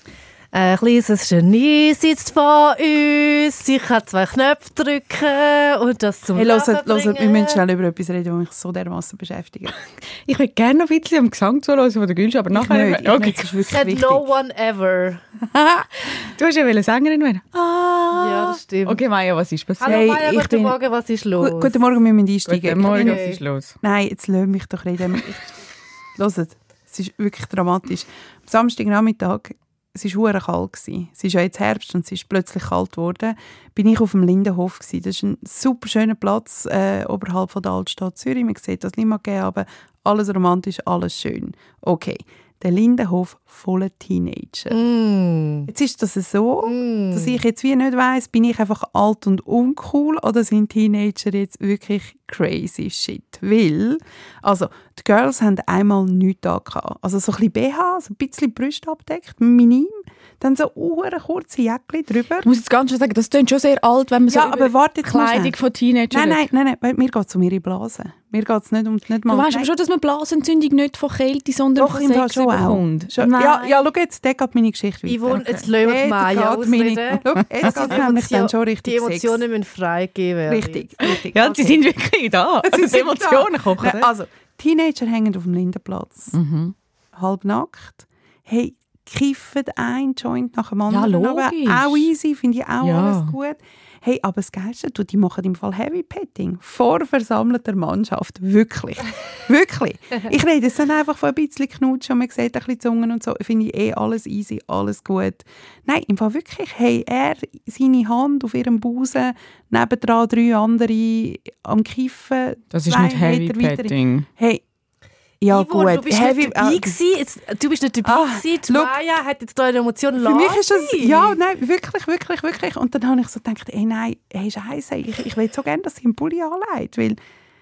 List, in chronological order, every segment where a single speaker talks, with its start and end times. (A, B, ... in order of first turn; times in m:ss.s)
0:00.5-0:07.6 A
0:06.3-0:09.7 B
0:10.2-0:13.5 C
0:12.5-0:14.2 B
0:13.7-0:15.2 A
0:15.5-0:20.0 C
0:18.1-0:19.0 A
0:19.8-0:21.8 A
0:19.8-0:20.8 B
0:21.4-0:23.2 B
0:22.4-0:23.8 C
0:22.8-0:23.4 A
0:23.8-0:25.4 B
0:26.2-0:44.8 B
0:44.7-0:45.7 A
0:45.7-1:02.5 B
0:46.6-0:47.4 A
1:02.4-1:06.4 C
1:04.3-1:05.6 B
1:06.1-1:09.7 B
1:09.3-1:13.8 C
1:11.8-1:19.4 B
1:15.0-1:20.9 A
1:15.4-1:15.6 C
1:20.5-1:21.8 B
1:21.3-1:24.1 C
1:22.6-1:26.3 B
1:26.3-1:26.7 C
1:27.1-1:54.6 B
1:30.9-1:32.1 C
1:32.8-1:33.3 C
1:52.7-1:54.3 C
1:55.4-1:56.9 B
1:55.5-2:01.4 A
1:58.0-1:59.0 B
2:00.2-2:07.2 B